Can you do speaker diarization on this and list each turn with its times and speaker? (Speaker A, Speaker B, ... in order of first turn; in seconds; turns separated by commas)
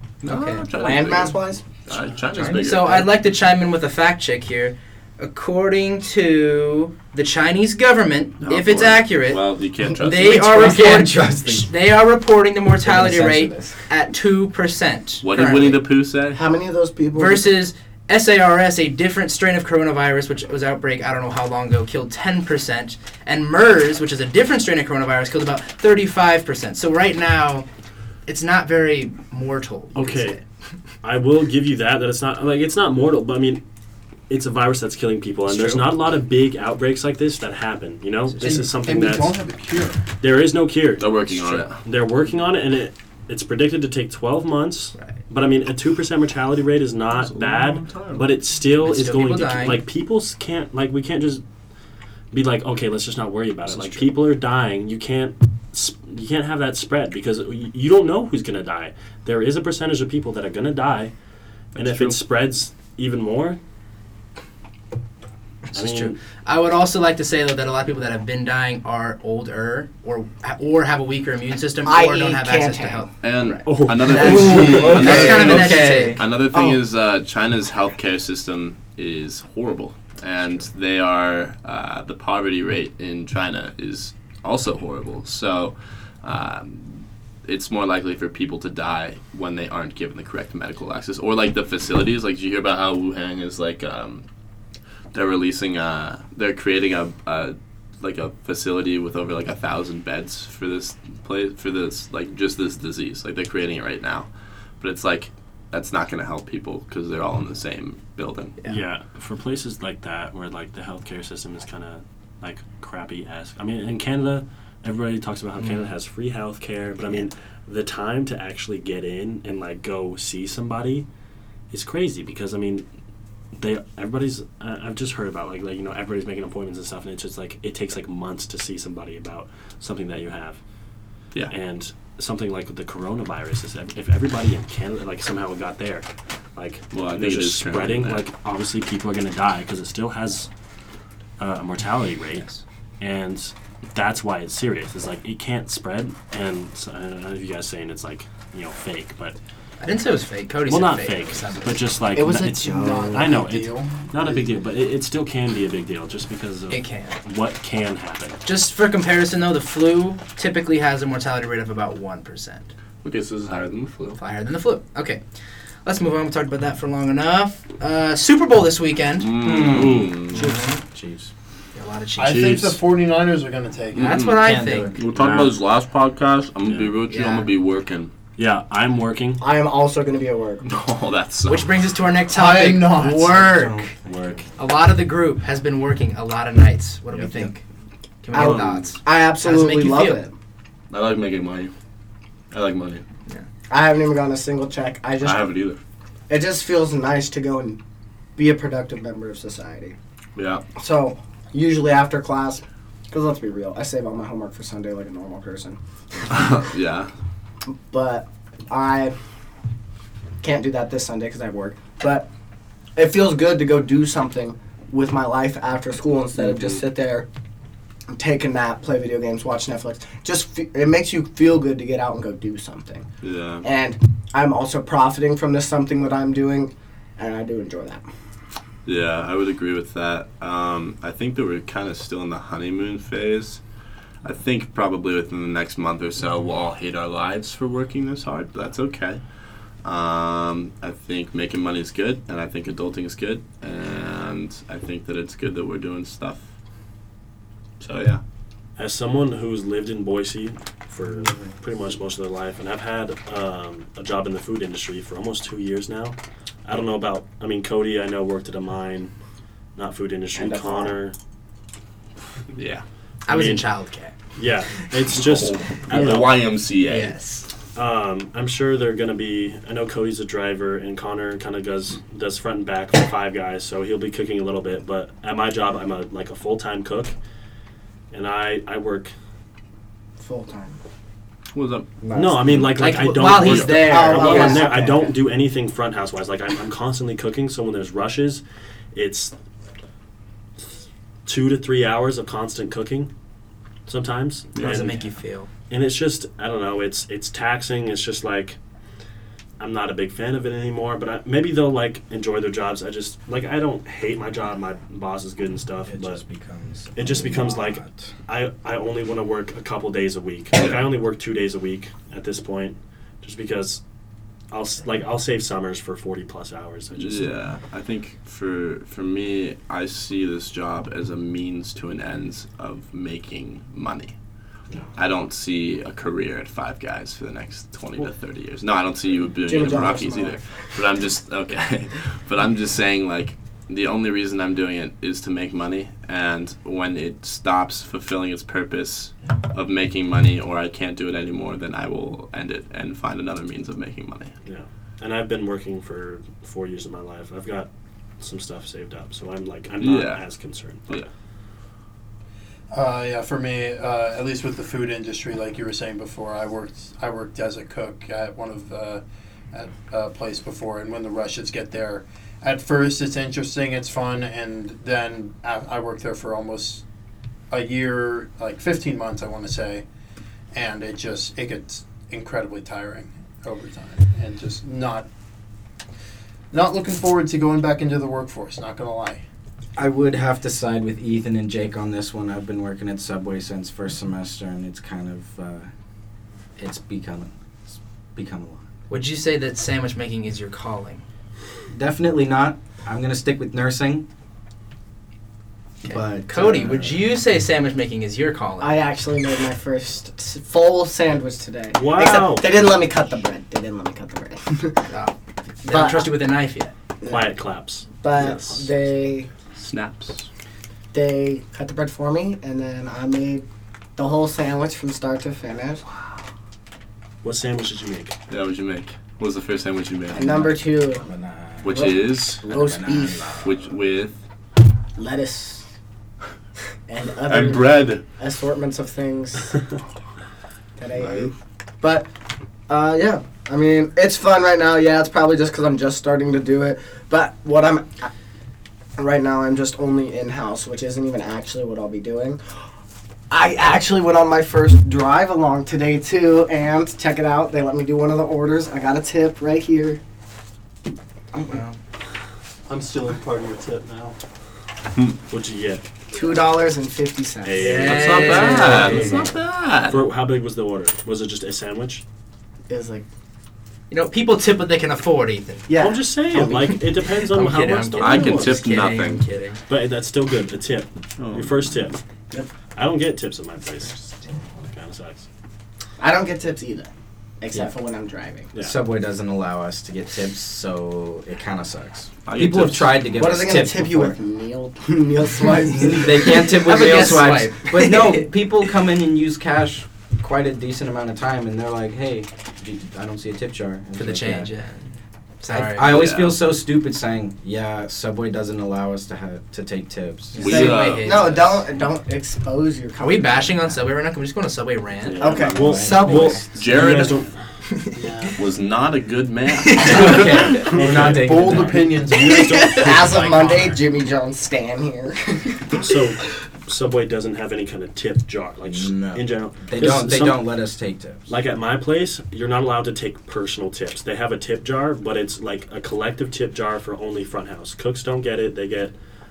Speaker A: 0.2-0.7, Speaker B: 0.2-3.1, Speaker C: 0.7-1.7, Speaker D: 2.3-2.6, Speaker A: 2.5-9.4, Speaker B: 8.4-10.5, Speaker A: 10.0-15.8, Speaker D: 10.2-11.7, Speaker D: 12.8-13.9, Speaker B: 15.2-16.4, Speaker C: 16.3-17.5, Speaker A: 17.1-27.6, Speaker A: 28.2-30.4, Speaker E: 29.9-30.4, Speaker E: 31.0-33.6, Speaker E: 34.3-39.4, Speaker B: 35.5-35.9, Speaker A: 38.3-38.7, Speaker F: 38.4-40.0, Speaker E: 40.2-41.2, Speaker B: 41.0-41.8, Speaker E: 41.8-51.4, Speaker B: 47.1-48.3, Speaker A: 48.8-49.8, Speaker E: 52.3-61.1, Speaker B: 53.7-54.1, Speaker B: 61.7-62.2, Speaker E: 61.7-63.6, Speaker A: 65.7-76.2, Speaker E: 65.7-66.2, Speaker C: 71.8-73.1, Speaker B: 73.2-94.2, Speaker E: 73.6-74.9, Speaker D: 74.2-76.2, Speaker F: 74.3-75.5, Speaker C: 76.5-76.8, Speaker B: 95.1-108.6, Speaker E: 108.7-121.0, Speaker E: 121.7-122.9, Speaker E: 123.5-130.6, Speaker E: 131.5-140.5, Speaker B: 136.9-138.3, Speaker E: 141.4-142.5, Speaker E: 143.0-149.3, Speaker A: 149.8-151.8, Speaker E: 150.7-158.4, Speaker C: 152.1-153.5, Speaker F: 152.2-154.5, Speaker A: 156.7-157.2, Speaker A: 158.4-162.7, Speaker B: 163.0-164.2, Speaker A: 164.1-165.2, Speaker A: 165.8-169.3, Speaker B: 169.2-170.5, Speaker D: 169.4-171.3, Speaker A: 170.3-170.8, Speaker A: 171.7-172.6, Speaker F: 172.2-174.2, Speaker B: 172.3-172.8, Speaker B: 173.9-178.1, Speaker A: 173.9-174.9, Speaker D: 174.4-175.0, Speaker E: 175.1-175.6, Speaker E: 176.6-176.9, Speaker A: 177.1-177.5, Speaker E: 178.4-179.4, Speaker C: 179.4-180.8, Speaker B: 180.6-181.7, Speaker A: 181.4-183.9, Speaker F: 182.3-183.6, Speaker D: 183.3-184.6, Speaker A: 184.6-187.6, Speaker D: 187.1-187.5, Speaker A: 188.2-190.2, Speaker C: 188.3-190.3, Speaker B: 188.3-188.7, Speaker B: 190.9-191.7, Speaker B: 192.5-193.0, Speaker C: 193.7-195.5, Speaker B: 195.2-195.8, Speaker C: 196.3-197.8, Speaker C: 198.4-199.9, Speaker B: 200.3-200.6, Speaker C: 200.8-205.8, Speaker B: 206.3-207.1, Speaker C: 206.3-206.6, Speaker C: 207.9-209.1, Speaker C: 210.4-212.3, Speaker C: 212.9-217.3, Speaker B: 216.3-216.8, Speaker C: 218.1-223.1, Speaker B: 223.2-223.6, Speaker C: 223.6-228.0, Speaker B: 228.8-233.6, Speaker B: 234.2-239.2, Speaker B: 239.8-246.5, Speaker B: 247.8-248.2, Speaker E: 248.8-259.1, Speaker E: 259.8-261.1, Speaker C: 260.3-261.0, Speaker B: 262.5-262.8, Speaker A: 263.2-264.1, Speaker E: 263.3-263.6, Speaker E: 264.4-266.4, Speaker B: 265.1-267.2, Speaker A: 266.9-267.5, Speaker E: 267.7-277.1, Speaker E: 278.1-279.1, Speaker C: 280.2-280.8, Speaker B: 281.5-282.7, Speaker D: 282.0-282.4, Speaker E: 282.1-288.4, Speaker A: 282.8-284.7, Speaker B: 283.3-283.8, Speaker C: 283.7-285.1, Speaker E: 288.9-289.3, Speaker E: 291.2-293.1, Speaker E: 293.9-295.1, Speaker B: 294.5-294.9, Speaker A: 294.6-295.5, Speaker E: 295.7-298.6, Speaker E: 299.6-306.2, Speaker D: 305.9-308.1, Speaker E: 306.9-313.8, Speaker B: 310.6-310.8, Speaker E: 314.5-317.3, Speaker B: 316.9-324.1, Speaker B: 324.9-344.3, Speaker C: 329.4-330.8, Speaker E: 344.4-351.0, Speaker B: 349.8-350.2, Speaker F: 352.7-366.8, Speaker F: 367.5-369.8, Speaker F: 370.5-375.1, Speaker F: 376.5-379.2, Speaker D: 379.8-385.7, Speaker D: 386.6-388.7, Speaker A: 388.9-391.0, Speaker D: 391.7-394.1, Speaker A: 395.8-398.8, Speaker D: 395.8-397.0, Speaker C: 398.6-404.9, Speaker E: 401.7-402.5, Speaker A: 404.9-406.7, Speaker C: 405.6-406.1, Speaker C: 407.0-407.3, Speaker E: 407.0-408.6, Speaker C: 408.0-409.3, Speaker B: 409.6-410.3, Speaker C: 410.9-413.4, Speaker C: 414.0-415.8, Speaker E: 417.2-418.1, Speaker B: 418.3-420.5, Speaker C: 420.1-421.1, Speaker D: 420.2-423.6, Speaker B: 421.6-422.4, Speaker C: 421.6-423.4, Speaker B: 423.4-424.2, Speaker C: 424.9-425.6, Speaker C: 426.9-429.7, Speaker B: 427.3-428.0, Speaker C: 430.8-432.1, Speaker B: 430.9-431.3, Speaker C: 432.7-438.1, Speaker C: 439.0-442.4, Speaker C: 443.3-450.0, Speaker A: 451.5-451.8, Speaker F: 452.7-454.1, Speaker E: 455.3-455.8, Speaker C: 456.1-457.9, Speaker E: 457.4-459.3, Speaker A: 457.6-459.1, Speaker B: 457.7-460.1, Speaker C: 458.8-459.1, Speaker E: 459.9-462.0, Speaker C: 462.7-463.1, Speaker A: 463.9-465.7, Speaker C: 465.7-466.8, Speaker E: 465.8-468.6, Speaker A: 466.4-469.6, Speaker B: 468.0-469.2, Speaker E: 469.7-472.0, Speaker B: 471.2-471.7, Speaker E: 472.7-474.0, Speaker E: 474.6-475.2, Speaker C: 476.0-478.5, Speaker D: 478.5-484.1, Speaker B: 482.2-483.0, Speaker C: 483.1-486.5, Speaker D: 485.6-494.5, Speaker A: 486.4-488.3, Speaker A: 493.9-496.1, Speaker D: 495.5-500.6, Speaker B: 495.8-496.4, Speaker A: 500.3-501.6, Speaker B: 500.4-501.4, Speaker C: 500.5-503.8, Speaker A: 503.0-505.2, Speaker E: 505.0-507.5, Speaker B: 505.2-505.8, Speaker C: 505.2-506.5, Speaker D: 505.5-506.4, Speaker B: 506.4-507.2, Speaker F: 507.9-508.4, Speaker B: 508.4-510.2, Speaker A: 509.6-510.4, Speaker D: 509.9-511.9, Speaker F: 510.6-513.5, Speaker E: 510.6-513.0, Speaker A: 512.2-513.4, Speaker C: 512.3-515.9, Speaker E: 515.7-520.5, Speaker D: 518.6-521.3, Speaker E: 521.3-528.9